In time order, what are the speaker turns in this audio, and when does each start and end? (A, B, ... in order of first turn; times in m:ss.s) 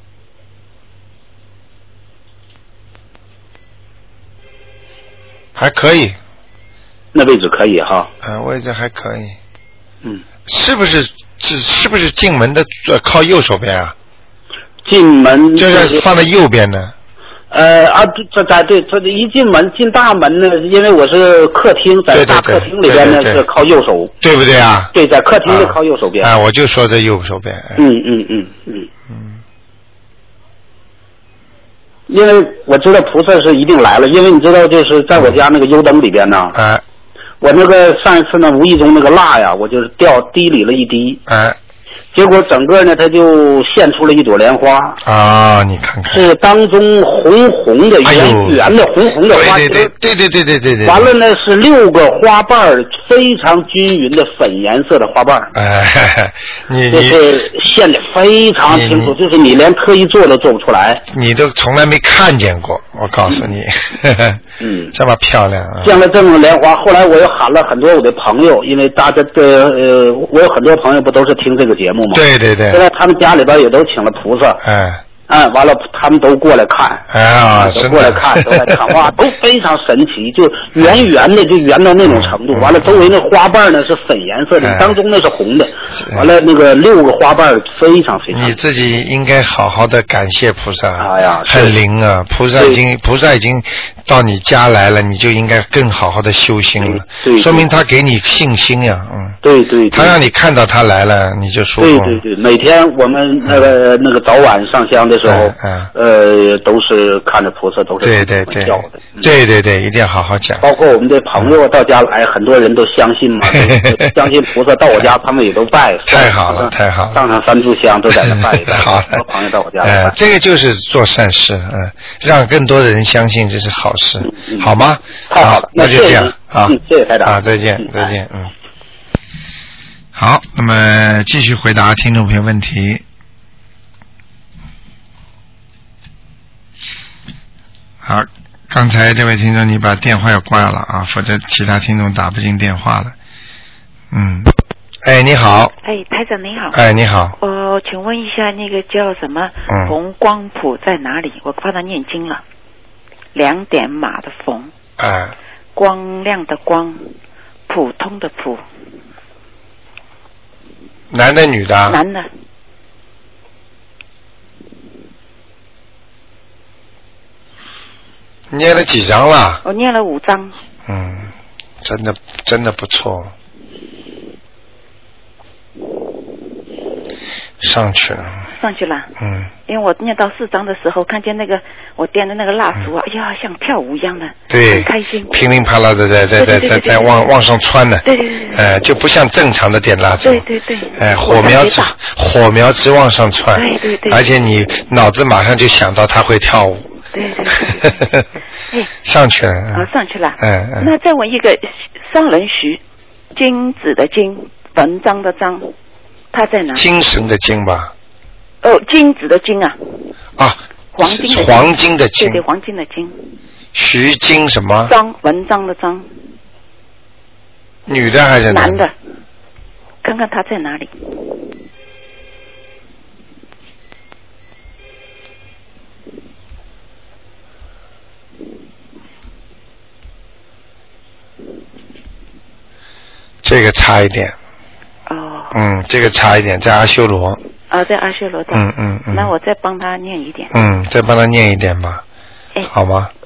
0:05.6-0:06.2 A
0:07.1-0:08.1 B
0:08.2-0:09.4 A
0:10.5-0:14.0 A
0:14.8-0:16.1 B
0:15.6-0:16.9 A
0:17.5-0:24.1 B
0:22.1-0:23.4 A
0:24.2-0:24.9 A
0:24.9-0:26.3 B
0:25.5-0:27.9 A
0:27.8-0:28.9 B
0:29.1-0:29.4 A
0:32.1-0:36.6 B
0:35.2-0:35.4 A
0:36.5-0:36.8 A
0:37.4-0:41.2 B
0:41.3-0:41.6 A
0:42.1-0:45.0 B
0:45.0-0:46.2 A
0:46.1-0:49.9 B
0:48.0-0:48.7 A
0:49.2-0:51.1 A
0:50.8-0:55.5 B
0:55.5-0:57.3 A
0:56.9-1:01.0 B
0:58.7-0:59.2 A
1:01.1-1:04.4 A
1:04.6-1:04.9 B
1:04.9-1:06.0 A
1:05.8-1:14.6 B
1:12.1-1:12.8 A
1:14.6-1:15.0 A
1:15.3-1:17.1 B
1:17.1-1:18.8 A
1:17.6-1:28.6 B
1:22.0-1:23.1 A
1:24.6-1:25.0 A
1:26.0-1:26.3 A
1:28.3-1:39.4 A
1:31.0-1:31.8 B
1:36.8-1:37.7 B
1:39.4-1:40.2 B
1:39.9-1:42.2 A
1:41.8-1:49.3 B
1:43.5-1:43.7 A
1:45.2-1:45.9 A
1:48.0-1:50.7 A
1:50.6-2:00.2 B
1:53.4-1:54.1 A
1:56.1-1:57.2 A
1:58.1-1:59.1 A
1:59.8-2:08.5 A
2:04.3-2:04.7 B
2:05.3-2:08.1 B
2:10.2-2:13.0 A
2:18.0-2:23.2 A
2:24.1-2:25.8 A
2:25.8-2:26.8 C
2:26.7-2:27.4 A
2:27.4-2:32.4 C
2:29.7-2:30.0 A
2:33.3-2:34.7 C
2:35.0-2:35.4 A
2:35.7-2:37.1 C
2:37.7-2:38.6 C
2:41.1-2:42.0 A
2:41.9-2:42.3 C
2:48.5-2:49.6 A
2:49.6-2:50.6 C
2:50.9-2:51.3 A
2:51.8-2:53.3 A
2:57.6-2:58.5 A
2:58.5-2:59.1 C
2:59.2-2:59.5 A
2:59.6-3:05.4 C
3:04.5-3:10.4 A
3:06.4-3:07.3 C
3:08.0-3:08.7 C
3:10.2-3:12.0 C
3:11.0-3:16.9 A
3:13.5-3:14.3 C
3:17.1-3:18.1 C
3:18.0-3:18.2 A
3:19.0-3:20.9 A
3:19.7-3:22.8 C
3:23.4-3:25.7 C
3:26.3-3:26.9 C
3:26.7-3:27.9 A
3:28.6-3:30.1 C
3:30.4-3:32.4 A
3:31.0-3:33.3 C
3:33.7-3:34.9 A
3:34.9-3:36.1 C
3:37.9-3:38.9 A
3:38.5-3:38.9 C
3:40.0-3:40.9 C
3:53.4-3:54.4 A
3:55.1-3:55.6 C
3:55.5-3:57.4 A
3:57.7-4:00.7 C
3:58.5-3:59.3 A
4:00.5-4:02.0 A
4:02.7-4:03.1 A